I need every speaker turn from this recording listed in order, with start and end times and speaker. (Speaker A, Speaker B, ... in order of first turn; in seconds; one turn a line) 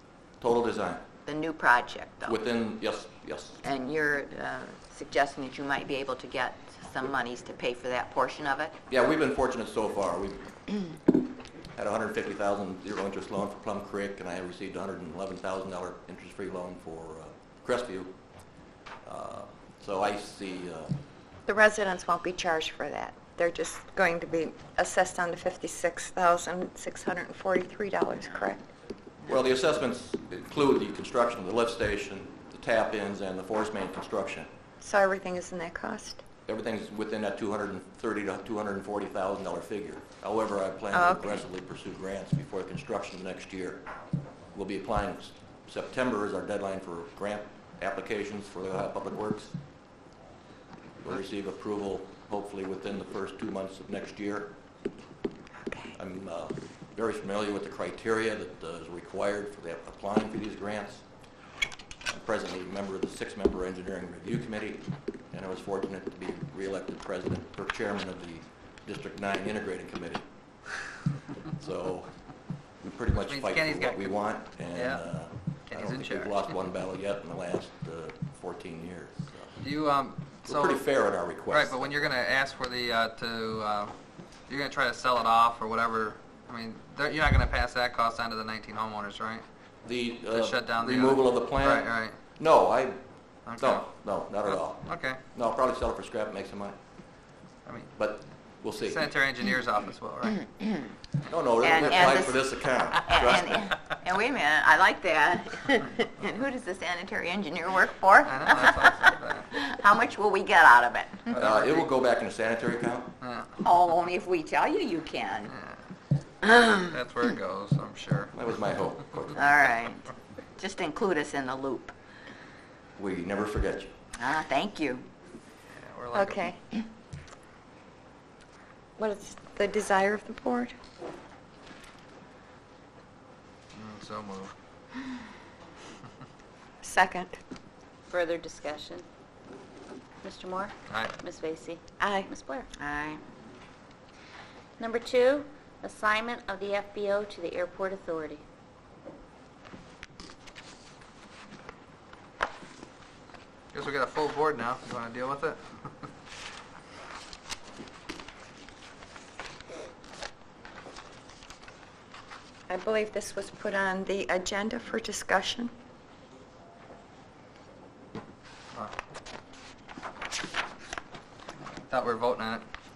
Speaker A: 0.4-1.1
Speaker B: 1.3-2.4
Speaker A: 2.3-3.6
Speaker B: 3.6-8.8
Speaker A: 8.9-10.5
Speaker A: 11.8-18.2
Speaker A: 19.0-20.9
Speaker C: 21.5-28.6
Speaker A: 29.2-34.5
Speaker C: 34.8-36.2
Speaker A: 36.5-43.9
Speaker C: 40.9-41.3
Speaker A: 44.5-49.6
Speaker A: 51.0-54.5
Speaker C: 55.6-56.0
Speaker A: 56.0-61.1
Speaker A: 62.1-70.3
Speaker A: 71.5-72.2
Speaker A: 72.8-79.5
Speaker D: 73.2-74.1
Speaker D: 74.7-75.0
Speaker D: 75.7-76.3
Speaker D: 79.6-80.8
Speaker A: 80.5-82.0
Speaker D: 81.5-83.9
Speaker D: 84.5-89.5
Speaker A: 89.8-93.0
Speaker D: 90.3-92.2
Speaker D: 93.5-93.9
Speaker A: 93.6-96.8
Speaker D: 94.8-95.2
Speaker D: 97.7-97.9
Speaker A: 98.0-99.0
Speaker D: 98.8-100.5
Speaker A: 101.3-103.7
Speaker B: 101.6-102.5
Speaker B: 103.1-111.4
Speaker D: 108.2-109.5
Speaker D: 111.3-111.8
Speaker A: 111.3-113.1
Speaker D: 113.2-113.5
Speaker B: 113.6-115.5
Speaker D: 115.5-115.7
Speaker D: 116.4-118.3
Speaker A: 118.3-119.7
Speaker B: 119.4-121.9
Speaker A: 123.0-123.9
Speaker B: 124.2-125.1
Speaker D: 125.7-126.4
Speaker C: 126.1-126.6
Speaker C: 129.0-130.7
Speaker D: 133.7-134.5
Speaker C: 136.8-137.4
Speaker E: 138.1-139.1
Speaker E: 140.2-142.7
Speaker D: 140.9-141.2
Speaker C: 142.0-142.3
Speaker B: 142.8-143.2
Speaker E: 144.8-148.4
Speaker D: 153.7-155.6
Speaker C: 162.7-165.7
Speaker D: 171.9-172.7